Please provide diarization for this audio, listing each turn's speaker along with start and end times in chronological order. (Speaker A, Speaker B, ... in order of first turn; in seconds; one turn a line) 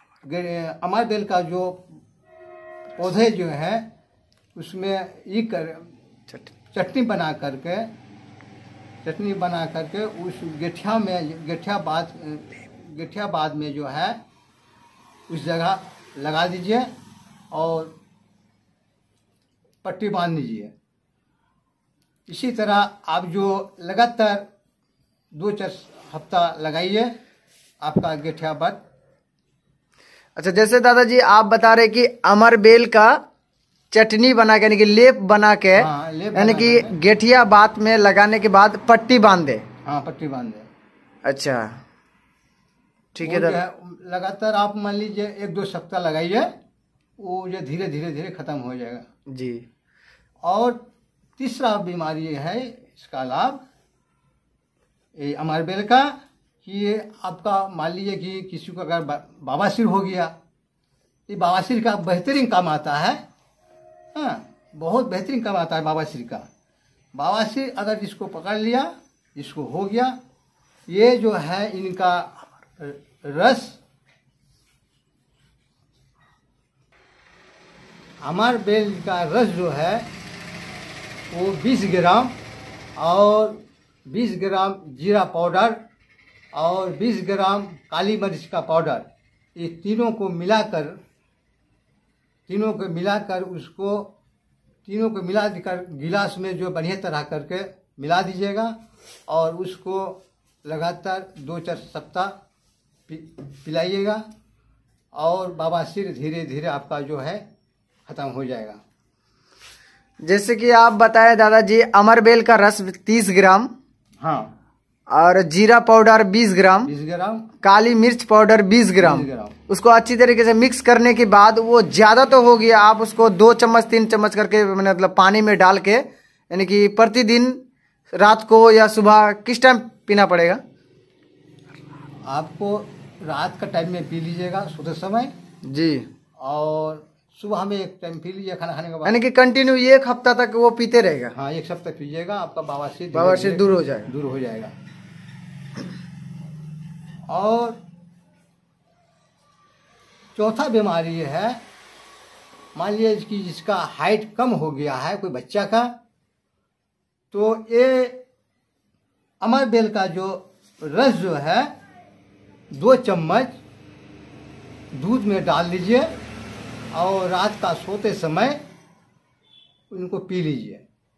Speaker A: 0.2-2.0
Speaker A: 3.0-3.9
Speaker A: 4.6-5.9
Speaker A: 6.7-7.9
Speaker A: 9.0-14.2
Speaker A: 15.3-16.9
Speaker A: 17.5-18.0
Speaker A: 19.8-20.7
Speaker A: 22.3-24.4
Speaker A: 25.3-27.1
Speaker A: 27.8-28.8
Speaker B: 30.4-33.2
Speaker B: 33.9-39.6
Speaker A: 35.8-36.9
Speaker A: 39.9-40.7
Speaker B: 41.2-41.8
Speaker B: 43.1-43.6
Speaker A: 43.2-46.5
Speaker A: 47.2-49.0
Speaker B: 49.3-49.7
Speaker A: 50.4-50.8
Speaker A: 51.4-53.6
Speaker A: 55.2-56.1
Speaker A: 56.6-60.3
Speaker A: 61.3-63.2
Speaker A: 64.2-66.5
Speaker A: 67.1-70.2
Speaker A: 70.9-73.8
Speaker A: 78.2-80.1
Speaker A: 81.3-82.4
Speaker A: 83.0-85.8
Speaker A: 86.5-91.0
Speaker A: 92.5-94.1
Speaker A: 94.9-98.8
Speaker A: 99.3-102.3
Speaker A: 103.1-104.2
Speaker A: 105.1-107.5
Speaker A: 108.1-108.8
Speaker B: 110.2-113.7
Speaker A: 114.2-114.5
Speaker B: 115.1-116.9
Speaker A: 116.8-117.5
Speaker B: 117.6-127.6
Speaker A: 119.0-119.6
Speaker B: 128.2-130.6
Speaker A: 132.3-135.3
Speaker B: 135.7-136.1
Speaker A: 136.4-139.2
Speaker B: 139.1-141.3
Speaker A: 141.3-144.7
Speaker B: 143.1-144.1
Speaker A: 147.3-147.8
Speaker A: 150.4-151.6
Speaker A: 152.8-155.9
Speaker A: 157.3-158.2
Speaker A: 159.4-161.7
Speaker A: 162.7-163.5
Speaker A: 164.9-166.1
Speaker A: 166.9-168.6
Speaker A: 169.9-170.8